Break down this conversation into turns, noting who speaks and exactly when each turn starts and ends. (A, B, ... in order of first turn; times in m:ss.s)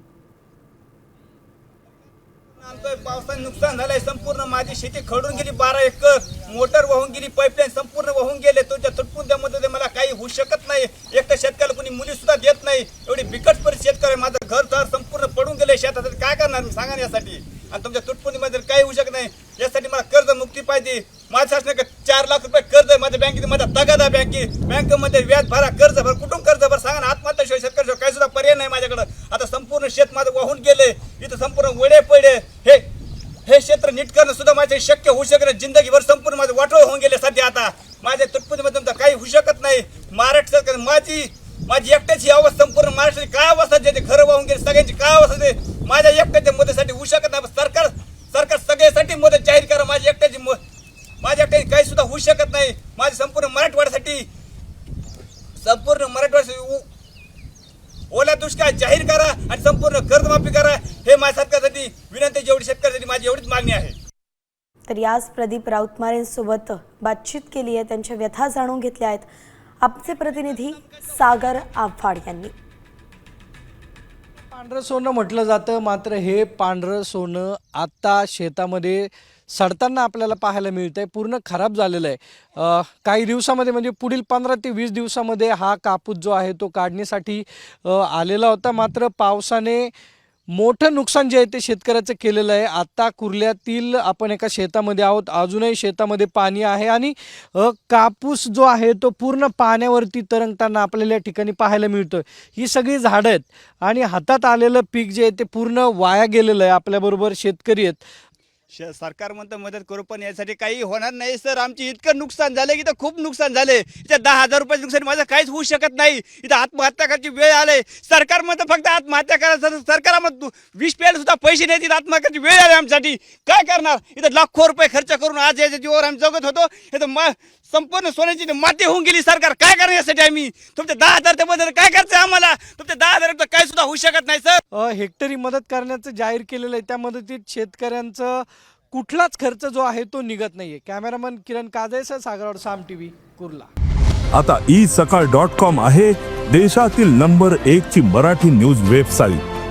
0:02.6-0:32.9 A
0:33.5-0:50.6 A
0:51.2-0:54.3 A
0:55.6-0:56.8 A
0:58.1-1:04.0 A
1:04.9-1:09.3 B
1:09.8-1:12.5 B
1:14.5-1:29.9 C
1:30.5-1:48.0 C
1:48.7-2:14.6 A
2:14.7-2:23.7 C
2:24.4-2:29.4 D